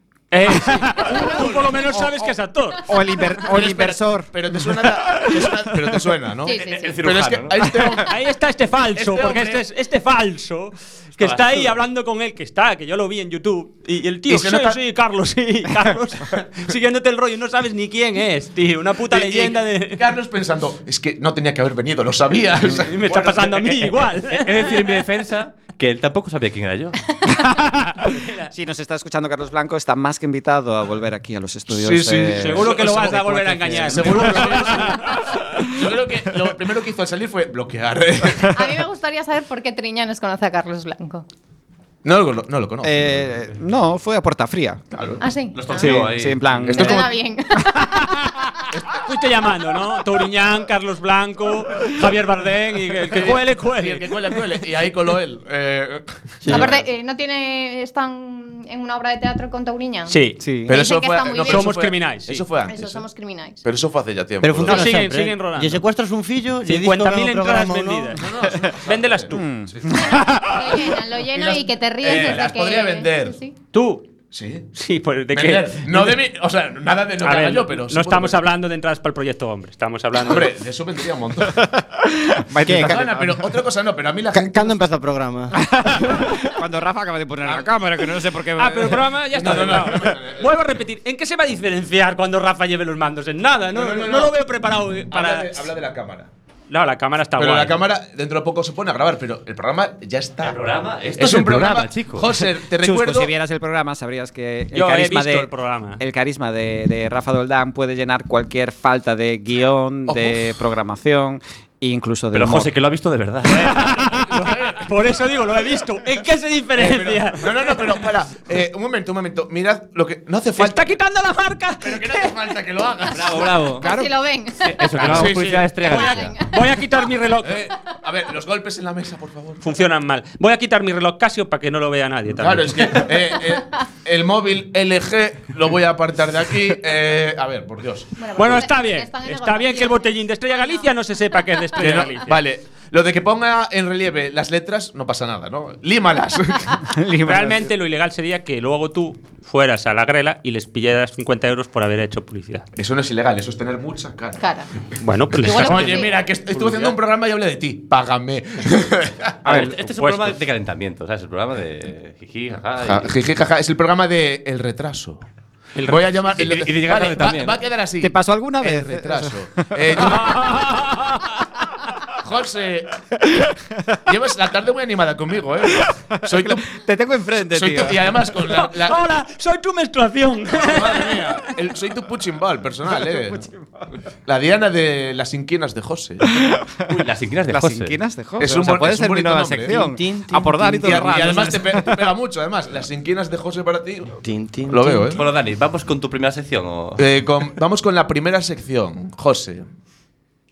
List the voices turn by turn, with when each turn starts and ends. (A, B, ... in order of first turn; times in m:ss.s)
0:00.3-0:02.9 A
0:00.5-0:02.3 B
0:02.9-0:06.0 C
0:03.4-0:08.2 B
0:06.4-0:06.9 D
0:06.4-0:07.7 E
0:07.6-0:08.0 C
0:08.0-0:20.0 A
0:08.9-0:09.6 B
0:11.2-0:11.8 E
0:14.3-0:14.8 B
0:19.1-0:23.7 B
0:22.7-0:24.9 A
0:23.5-0:27.1 E
0:28.0-0:28.5 A
0:28.5-0:35.9 C
0:31.7-0:38.6 B
0:32.3-0:35.3 A
0:38.4-0:41.2 D
0:42.0-0:43.3 B
0:42.8-0:45.2 C
0:45.2-0:45.9 D
0:45.5-0:46.9 E
0:45.7-0:47.1 C
0:46.6-0:47.1 B
0:46.7-0:48.3 D
0:48.7-0:49.0 B
0:49.0-0:54.4 A
0:53.1-0:56.7 B
0:56.4-0:56.7 F
0:56.5-1:01.7 D
1:00.1-1:00.4 A
1:00.4-1:00.7 C
1:00.6-1:03.0 B
1:01.3-1:02.4 A
1:02.6-1:03.6 D
1:03.6-1:04.9 B
1:04.4-1:08.2 F
1:04.6-1:05.8 A
1:06.6-1:09.4 A
1:08.2-1:10.0 B
1:09.3-1:10.8 C
1:09.9-1:13.5 D
1:10.8-1:13.4 B
1:13.7-1:14.1 A
1:14.3-1:14.6 B
1:14.7-1:16.2 A
1:15.3-1:18.4 B
1:17.2-1:20.6 A
1:20.2-1:21.6 B
1:21.4-1:23.5 C
1:22.6-1:23.0 F
1:22.7-1:24.8 B
1:24.3-1:25.6 F
1:25.6-1:29.0 C
1:28.6-1:35.6 A
1:29.3-1:30.5 B
1:33.7-1:34.3 B
1:35.1-1:36.3 B
1:36.7-1:37.8 A
1:37.4-1:40.6 B
1:40.4-1:42.4 E
1:41.2-1:43.3 B
1:42.8-1:52.7 C
1:44.7-1:46.0 A
1:50.1-1:50.4 B
1:52.3-1:54.2 E
1:53.4-1:58.0 A
1:54.3-1:54.8 B
1:56.7-2:00.8 B
2:00.6-2:02.6 A
2:01.8-2:03.7 B
2:03.1-2:03.9 E
2:03.8-2:04.9 D
2:03.8-2:04.1 C
2:04.6-2:06.4 E
2:05.0-2:07.6 A
2:05.0-2:05.6 B
2:05.9-2:06.5 D
2:07.4-2:09.6 B
2:09.6-2:13.4 A
2:12.4-2:18.6 B
2:18.2-2:20.9 D
2:18.3-2:22.4 A
2:21.8-2:26.9 B
2:26.8-2:27.7 C
2:27.2-2:32.6 A
2:32.8-2:34.4 B
2:34.4-2:34.7 D
2:35.0-2:37.0 A
2:35.4-2:39.4 B
2:35.5-2:36.1 D
2:39.4-2:40.4 A
2:39.4-2:43.2 E
2:42.8-2:45.2 B
2:45.8-2:46.1 A
2:45.8-2:50.6 B
2:46.3-2:47.6 E
2:48.0-2:50.2 C
2:50.2-2:51.3 A
2:52.1-2:52.9 B
2:54.0-2:56.7 B
2:56.2-2:58.1 C
2:57.4-2:59.0 B
2:58.4-3:01.5 A
3:00.6-3:03.4 B
3:02.9-3:03.6 C
3:04.2-3:06.3 B
3:06.3-3:06.8 C
3:06.9-3:08.0 E
3:07.5-3:12.0 C
3:08.4-3:09.8 B
3:09.7-3:11.6 F
3:10.8-3:14.1 B
3:14.2-3:15.2 F
3:14.7-3:15.2 B
3:15.1-3:17.0 E
3:17.0-3:19.6 B